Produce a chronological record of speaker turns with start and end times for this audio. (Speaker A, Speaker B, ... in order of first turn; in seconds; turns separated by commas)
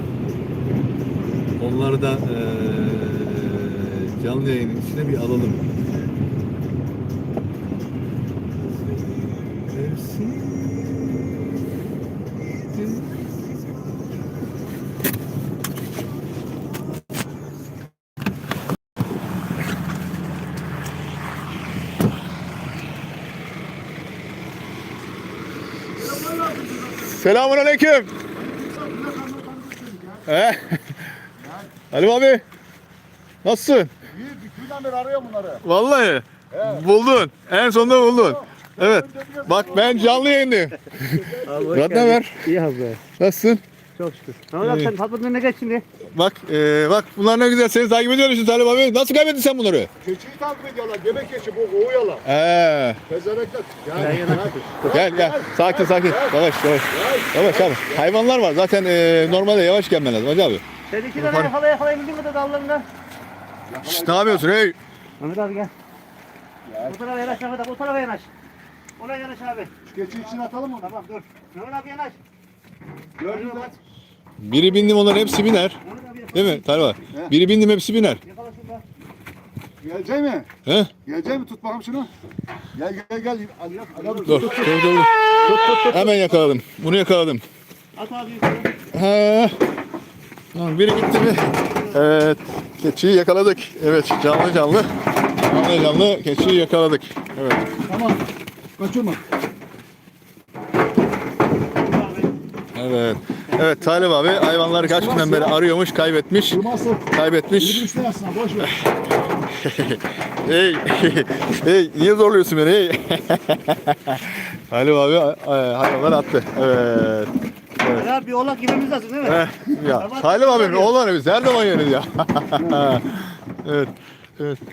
Speaker A: 1.6-5.6, Speaker A: 9.6-11.4, Speaker A: 12.7-13.2, Speaker B: 26.1-27.0, Speaker A: 27.0-28.1, Speaker B: 28.4-30.3, Speaker A: 30.3-30.8, Speaker B: 31.4-31.7, Speaker A: 31.9-32.4, Speaker A: 33.4-33.9, Speaker B: 34.1-35.6, Speaker A: 35.6-42.4, Speaker B: 36.5-36.8, Speaker B: 38.0-40.3, Speaker B: 41.1-41.8, Speaker C: 41.4-43.0, Speaker A: 43.2-43.6, Speaker C: 44.0-45.8, Speaker A: 44.6-44.9, Speaker A: 46.1-49.9, Speaker B: 50.0-52.2, Speaker A: 52.2-53.0, Speaker B: 53.1-58.0, Speaker C: 54.0-54.8, Speaker A: 54.8-60.6, Speaker C: 60.9-62.9, Speaker A: 61.1-61.5, Speaker B: 63.7-64.5, Speaker A: 63.9-64.7, Speaker C: 65.2-65.7, Speaker B: 66.7-67.0, Speaker C: 66.8-68.3, Speaker C: 69.0-69.7, Speaker B: 69.8-70.9, Speaker C: 70.8-72.2, Speaker B: 73.2-73.7, Speaker C: 73.2-73.8, Speaker A: 74.4-75.8, Speaker C: 75.8-76.8, Speaker A: 76.3-78.2, Speaker C: 78.2-78.8, Speaker B: 79.8-80.5, Speaker A: 80.6-80.9, Speaker B: 81.0-82.1, Speaker B: 82.7-85.9, Speaker C: 84.0-84.7, Speaker A: 84.2-87.4, Speaker C: 85.5-86.0, Speaker C: 88.0-88.7, Speaker A: 88.9-89.6, Speaker A: 90.5-97.7, Speaker B: 97.8-98.2, Speaker B: 98.8-99.2, Speaker A: 102.7-107.9, Speaker B: 104.8-105.6, Speaker B: 106.5-108.8, Speaker A: 109.5-118.1, Speaker C: 117.9-120.9, Speaker A: 119.2-124.6, Speaker B: 122.5-123.0